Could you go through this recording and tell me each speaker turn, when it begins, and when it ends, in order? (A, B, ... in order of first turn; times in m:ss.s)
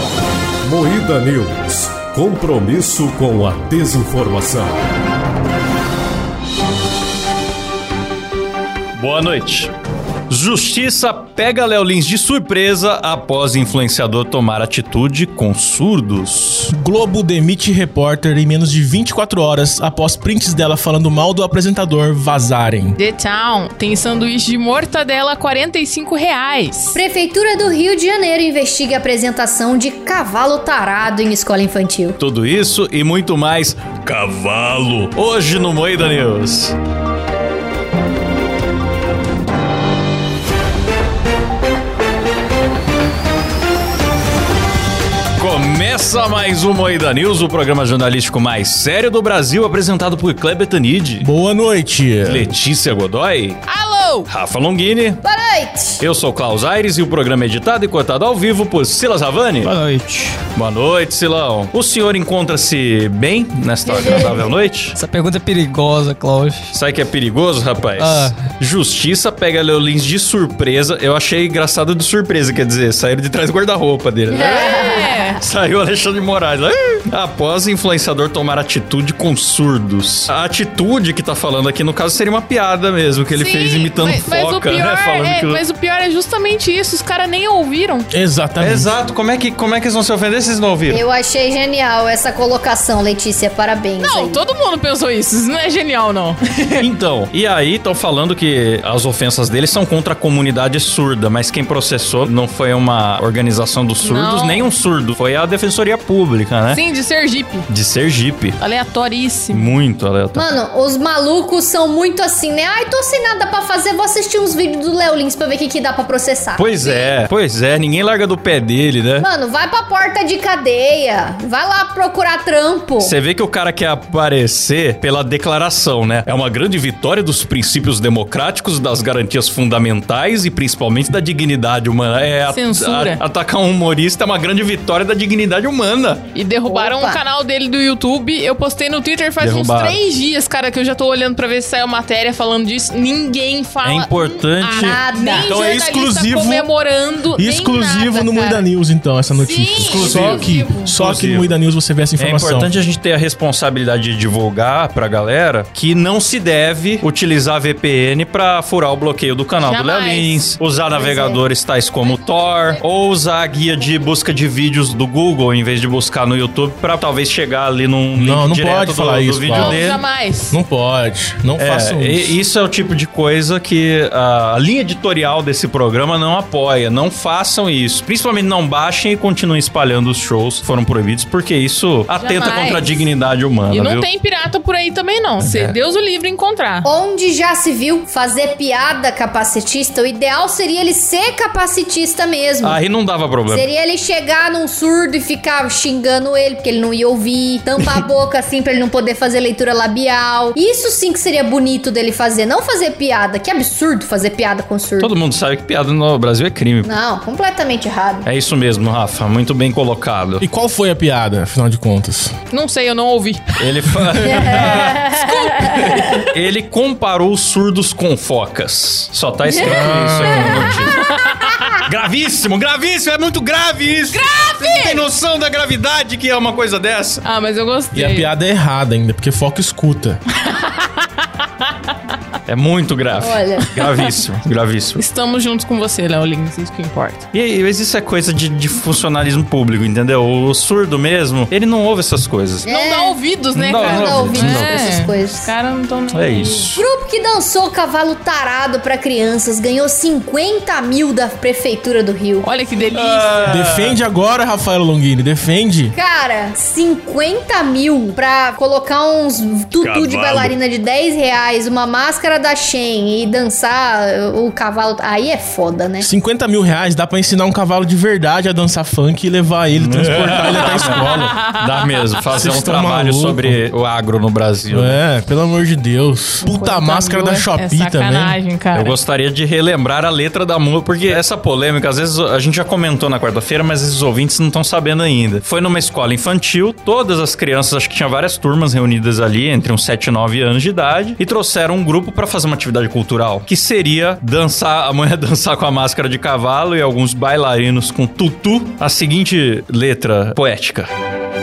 0:00.6-0:04.7 A
0:09.0-0:09.7 B
0:10.3-0:16.7 B
0:16.7-0:23.0 C
0:23.0-0:26.9 D
0:26.9-0:32.2 E
0:32.2-0:36.8 B
0:45.4-0:51.3 B
0:51.2-0:52.5 C
0:52.2-0:53.6 B
0:53.7-0:54.3 D
0:54.3-0:55.2 B
0:55.2-0:56.0 E
0:56.0-0:59.7 B
0:59.6-1:00.4 F
1:00.5-1:05.0 B
1:03.8-1:04.6 E
1:04.9-1:06.7 F
1:06.7-1:25.6 B
1:08.0-1:08.4 F
1:14.3-1:15.4 E
1:14.5-1:15.4 D
1:23.3-1:28.1 D
1:28.1-1:28.9 C
1:28.6-1:31.0 B
1:30.9-1:34.4 E
1:34.0-1:36.8 D
1:36.8-1:46.8 B
1:44.0-1:44.7 D
1:46.7-1:47.6 D
1:47.7-1:48.6 B
1:48.6-1:49.8 D
1:49.5-1:50.5 B
1:50.4-1:57.2 E
1:56.6-1:59.3 B
1:59.2-2:03.2 E
2:03.0-2:16.3 B
2:12.5-2:13.2 D
2:16.4-2:28.6 D
2:16.6-2:17.2 E
2:19.4-2:20.0 B
2:23.8-2:25.0 B
2:24.7-2:25.5 E
2:25.3-2:26.7 C
2:27.4-2:32.7 C
2:29.3-2:30.9 D
2:29.8-2:31.6 B
2:32.2-2:50.0 B
2:39.6-2:40.5 D
2:40.9-2:41.4 E
2:48.2-2:49.8 C
2:49.6-2:50.6 D
2:50.5-2:52.4 C
2:51.6-3:04.1 B
3:02.2-3:03.0 D
3:03.7-3:06.8 D
3:05.4-3:05.8 B
3:06.8-3:12.8 E
3:12.6-3:13.7 B
3:13.5-3:25.1 E
3:25.0-3:26.9 B
3:26.8-3:28.3 E
3:28.2-3:30.5 B
3:30.4-3:32.3 C
3:32.5-3:35.6 D
3:33.6-3:35.2 B
3:34.2-3:36.2 E
3:35.7-3:41.0 B
3:39.5-3:41.7 E
3:39.6-3:40.8 C
3:41.2-3:41.6 D
3:41.8-3:47.2 B
3:44.1-3:45.0 D
3:47.3-3:48.3 D
3:47.9-3:50.2 C
3:50.4-3:51.7 D
3:52.5-3:55.0 B
3:53.2-3:53.7 E
3:55.0-3:57.2 D
3:57.3-4:02.7 B
4:02.6-4:03.2 E
4:02.7-4:06.7 D
4:03.5-4:04.9 B
4:03.8-4:05.5 E
4:06.1-4:06.8 B
4:06.8-4:12.5 E
4:12.4-4:13.5 D
4:12.9-4:14.0 B
4:13.4-4:16.0 C
4:15.9-4:26.1 E
4:19.8-4:20.5 B
4:26.0-4:31.4 C
4:29.7-4:35.0 B
4:31.1-4:31.6 D
4:32.4-4:33.6 C
4:34.7-4:38.4 C
4:36.4-4:39.0 D
4:38.8-5:00.9 B